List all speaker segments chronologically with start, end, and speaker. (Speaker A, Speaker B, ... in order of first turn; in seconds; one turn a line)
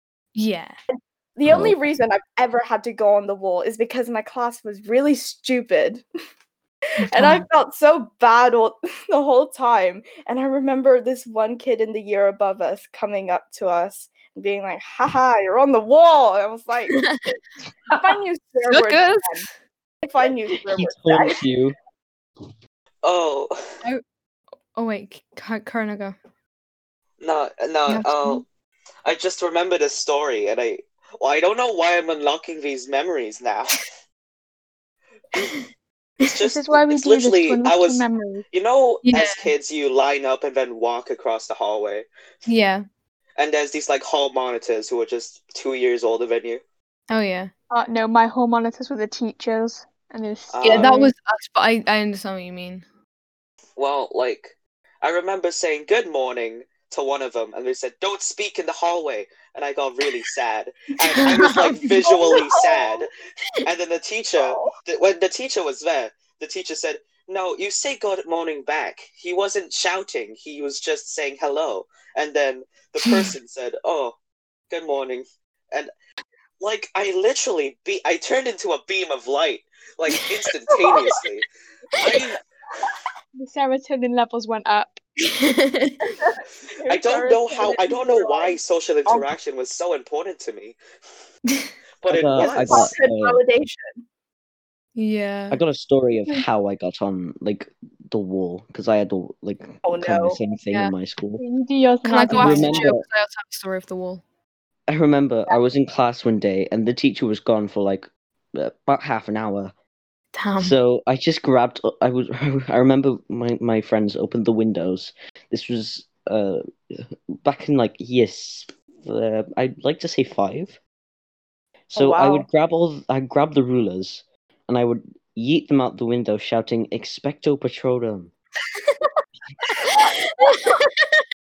Speaker A: 0.3-0.7
Speaker B: 0.9-6.0
Speaker C: 1.4-1.8
Speaker B: 7.0-17.0
Speaker A: 7.0-7.5
Speaker A: 16.9-17.4
Speaker A: 17.9-18.2
Speaker B: 17.9-19.4
Speaker A: 18.7-19.5
Speaker B: 20.0-21.4
Speaker C: 20.6-21.7
Speaker D: 23.0-23.6
Speaker A: 24.7-26.1
Speaker D: 27.2-28.4
Speaker A: 27.9-28.4
Speaker D: 29.0-33.8
Speaker A: 35.3-35.6
Speaker D: 36.2-42.1
Speaker E: 36.4-38.4
Speaker A: 39.0-39.5
Speaker A: 42.5-42.8
Speaker D: 43.4-46.6
Speaker A: 47.1-47.5
Speaker E: 47.7-51.1
Speaker D: 50.5-50.9
Speaker A: 50.6-52.8
Speaker D: 53.8-63.1
Speaker A: 61.0-62.0
Speaker B: 62.0-63.0
Speaker D: 63.6-74.1
Speaker B: 64.3-64.7
Speaker A: 73.0-73.3
Speaker D: 74.7-75.9
Speaker D: 76.6-82.4
Speaker E: 83.4-85.0
Speaker A: 85.2-86.0
Speaker B: 86.2-89.3
Speaker D: 86.9-90.8
Speaker D: 92.0-92.9
Speaker C: 92.1-93.4
Speaker B: 92.4-94.0
Speaker A: 95.0-95.6
Speaker C: 95.5-101.4
Speaker B: 99.8-100.4
Speaker E: 101.4-102.9
Speaker A: 102.0-104.2
Speaker C: 102.3-103.0
Speaker C: 104.9-109.7
Speaker A: 110.3-110.7
Speaker C: 110.6-120.8
Speaker C: 121.9-128.3
Speaker B: 122.0-122.5
Speaker A: 129.7-131.2
Speaker B: 129.8-130.7